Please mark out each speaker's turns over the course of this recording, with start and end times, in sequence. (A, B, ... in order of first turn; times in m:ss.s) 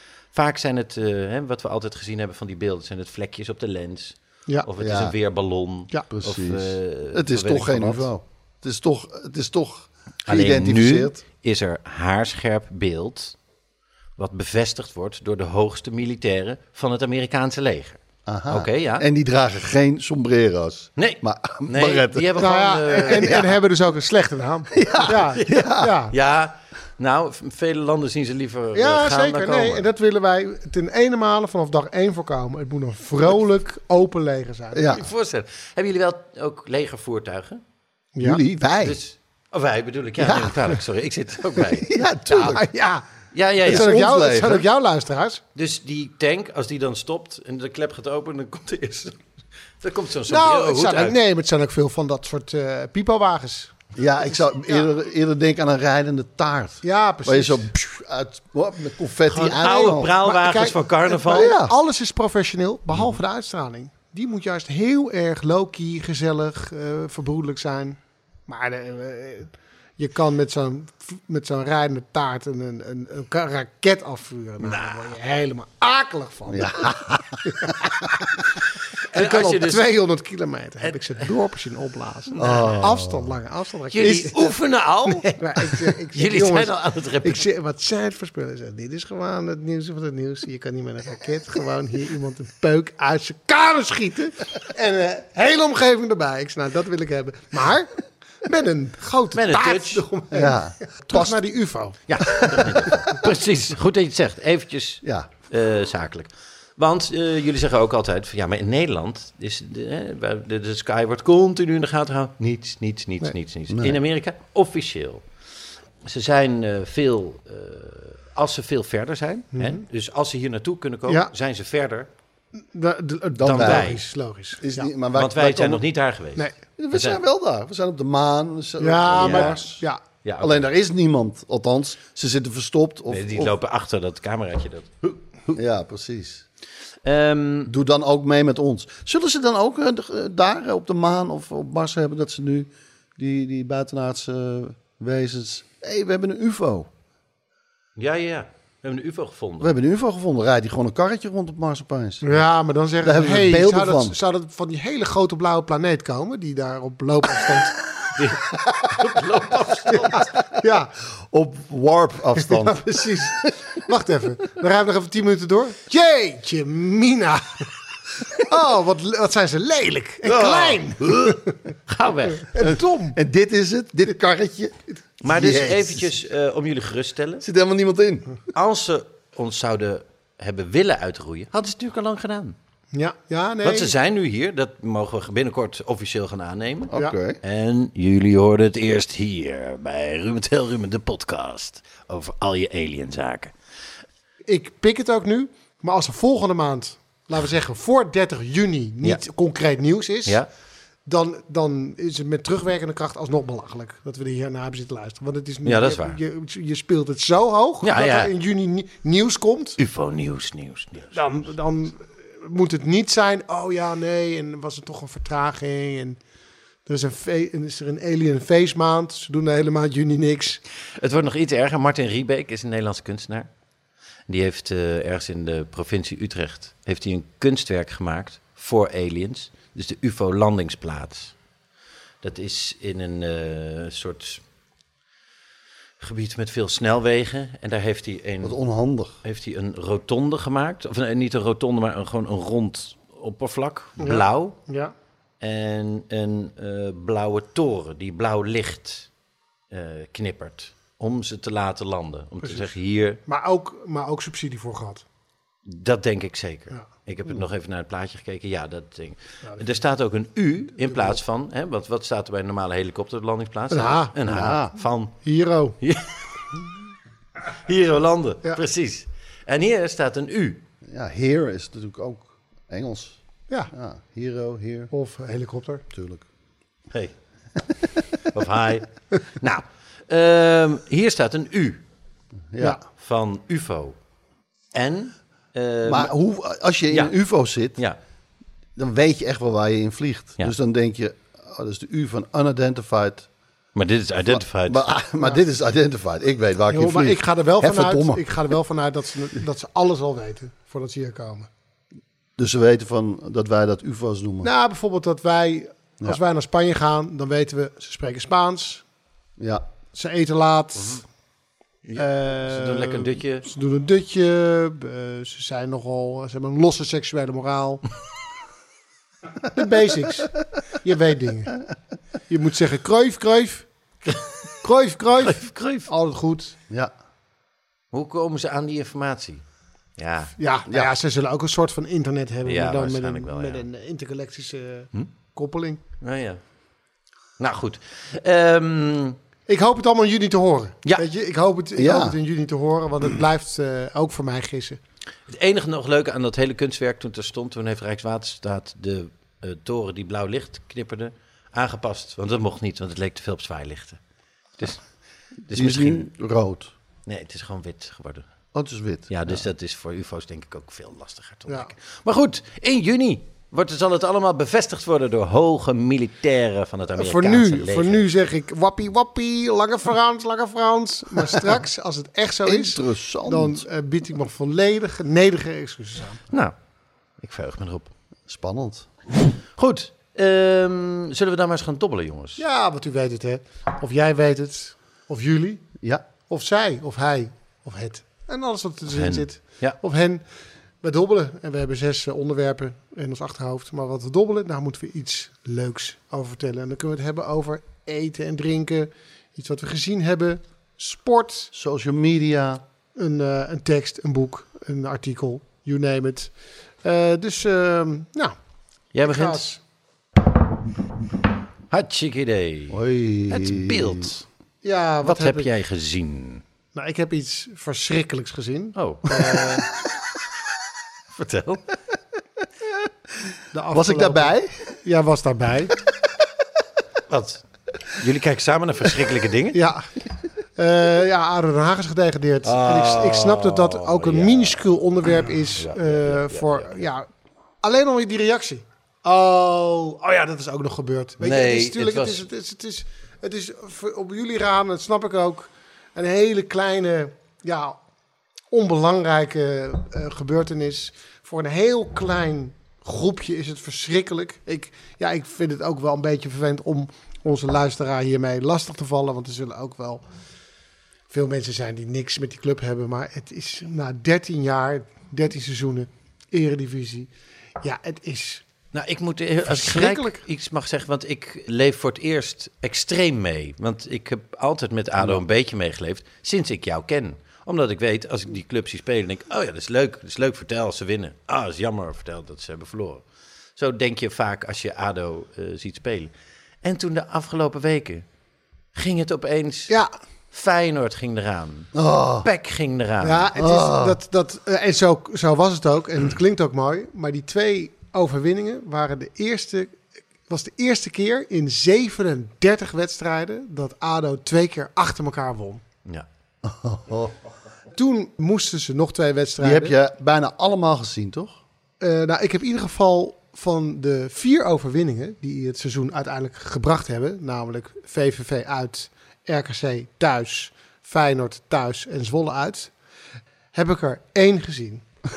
0:00.3-0:08.1 A
0:04.8-0:05.2 B
0:06.1-0:11.2 B
0:10.3-0:13.4 A
0:14.2-0:19.1 A
0:18.3-0:22.4 B
0:21.0-0:23.6 A
0:22.4-0:26.1 C
0:24.8-0:25.9 B
0:25.4-0:29.9 A
0:28.8-0:34.9 C
0:34.7-0:35.0 B
0:34.9-0:37.6 A
0:38.2-0:38.4 C
0:38.2-0:39.0 B
0:38.8-0:42.6 A
0:40.2-0:40.6 B
0:41.9-0:42.6 B
0:42.3-0:43.0 C
0:43.3-0:43.9 A
0:43.6-0:44.7 B
0:43.7-0:45.4 C
0:45.6-0:49.2 A
0:49.8-0:51.2 A
0:50.3-0:54.9 C
0:54.0-1:00.2 B
0:56.8-0:57.7 C
0:59.3-1:01.5 A
0:59.7-1:16.9 C
1:01.3-1:01.7 B
1:14.6-1:15.1 A
1:16.5-1:17.4 B
1:17.5-1:18.2 C
1:19.1-1:19.9 A
1:19.1-1:24.6 C
1:20.8-1:21.3 A
1:22.3-1:22.8 A
1:22.4-1:23.3 B
1:23.9-1:27.4 A
1:25.1-1:37.9 C
1:38.4-1:42.6 C
1:39.3-1:40.0 A
1:40.3-1:41.4 B
1:42.1-1:55.2 A
1:45.0-1:45.3 B
1:53.7-1:54.0 B
1:56.0-2:02.1 A
1:59.6-1:59.8 C
2:02.6-2:04.9 C
2:03.4-2:04.0 B
2:03.4-2:04.0 A
2:04.6-2:05.8 B
2:05.1-2:07.2 A
2:06.8-2:09.8 B
2:08.8-2:10.0 C
2:09.2-2:09.6 A
2:10.2-2:10.6 A
2:10.4-2:13.5 B
2:13.1-2:15.6 A
2:15.5-2:16.4 B
2:17.0-2:17.7 A
2:17.7-2:26.9 B
2:28.0-2:29.8 A
2:29.6-2:32.4 B
2:32.2-2:37.7 C
2:33.0-2:34.2 B
2:38.2-2:40.3 A
2:39.9-2:40.9 C
2:41.3-2:42.8 B
2:42.4-2:47.7 C
2:48.3-2:51.5 C
2:50.2-2:51.4 B
2:51.9-2:52.5 A
2:52.4-2:53.2 C
2:52.6-2:56.1 B
2:55.2-2:57.4 A
2:57.4-2:58.3 B
2:58.5-3:02.6 A
3:02.9-3:03.9 C
3:03.6-3:13.5 A
3:06.9-3:07.4 B
3:14.5-3:20.4 C
3:21.1-3:29.8 C
3:25.6-3:26.2 A
3:27.8-3:28.3 A
3:29.8-3:31.2 A
3:31.1-3:36.2 C
3:36.9-3:40.6 C
3:41.0-3:43.5 A
3:44.3-3:51.3 A
3:52.2-3:54.4 A
3:56.0-3:58.6 A
3:58.4-3:59.1 B
3:59.2-4:04.6 A
4:04.0-4:04.9 C
4:05.4-4:09.1 A
4:09.7-4:13.2 A
4:12.4-4:12.7 C
4:13.3-4:15.0 C
4:15.6-4:25.2 A
4:23.7-4:24.1 C
4:24.3-4:24.7 B
4:25.2-4:25.8 C
4:25.8-4:26.1 A
4:27.6-4:30.6 A
4:30.9-4:33.2 B
4:33.7-4:34.9 B
4:34.9-4:35.8 C
4:35.9-4:36.2 B
4:38.3-4:41.8 A
4:42.5-4:42.8 B
4:43.0-4:44.0 A
4:44.7-4:46.1 A
4:45.8-4:47.8 B
4:46.9-4:47.2 A
4:48.8-4:53.3 B
4:53.8-4:54.9 A
4:54.3-4:58.3 B
4:56.7-5:01.5 C
5:02.4-5:04.5 B
5:04.4-5:08.8 C
5:09.4-5:09.6 B
5:09.9-5:11.0 C
5:10.8-5:11.0 A
5:11.8-5:13.5 A
5:12.0-5:17.8 C
5:19.5-5:21.6 C
5:22.3-5:23.7 C
5:24.6-5:26.6 C
5:25.2-5:25.9 A
5:27.9-5:29.4 A
5:30.0-5:30.3 A
5:30.4-5:35.8 C
5:30.7-5:30.9 B
5:32.4-5:33.6 A
5:36.0-5:36.4 A
5:37.4-5:39.2 A
5:39.5-5:44.8 C
5:41.8-5:42.2 B
5:45.3-5:54.0 A
5:54.6-5:54.8 A
5:55.5-5:56.0 A
5:55.5-5:56.7 B
5:57.1-5:58.3 A
5:58.5-5:59.4 B
5:59.1-6:08.1 A
6:07.0-6:16.2 C
6:12.4-6:13.7 B
6:17.2-6:17.9 A
6:18.3-6:18.9 B
6:19.6-6:22.4 A
6:22.4-6:25.7 C
6:26.3-6:30.2 C
6:28.9-6:29.8 A
6:30.8-6:41.5 C
6:41.5-6:42.6 B
6:43.0-6:48.4 C
6:48.9-6:49.5 A
6:49.0-6:49.6 C
6:51.7-6:54.2 A
6:52.7-6:54.1 B
6:54.6-6:55.5 C
6:55.0-6:56.4 A
6:56.8-6:59.7 C
6:58.8-6:59.5 A
7:01.1-7:01.6 A
7:03.5-7:05.8 C
7:03.7-7:04.7 B
7:07.1-7:09.6 A
7:09.5-7:09.9 C
7:10.6-7:17.1 C
7:12.4-7:14.6 A
7:15.6-7:16.8 A
7:17.6-7:27.8 C
7:21.2-7:22.2 A
7:28.5-7:40.0 C
7:41.1-7:47.1 C
7:47.6-7:48.4 C
7:48.7-8:03.0 A
7:49.4-7:50.2 C
8:03.6-8:06.1 A
8:06.6-8:08.0 A
8:08.8-8:09.7 A
8:10.3-8:11.7 A
8:11.7-8:12.3 B
8:12.2-8:13.3 A
8:13.0-8:25.6 C
8:13.4-8:14.0 B
8:26.4-8:27.2 B
8:27.7-8:29.8 C
8:29.4-8:31.4 B
8:31.8-8:42.7 C
8:43.5-8:44.8 C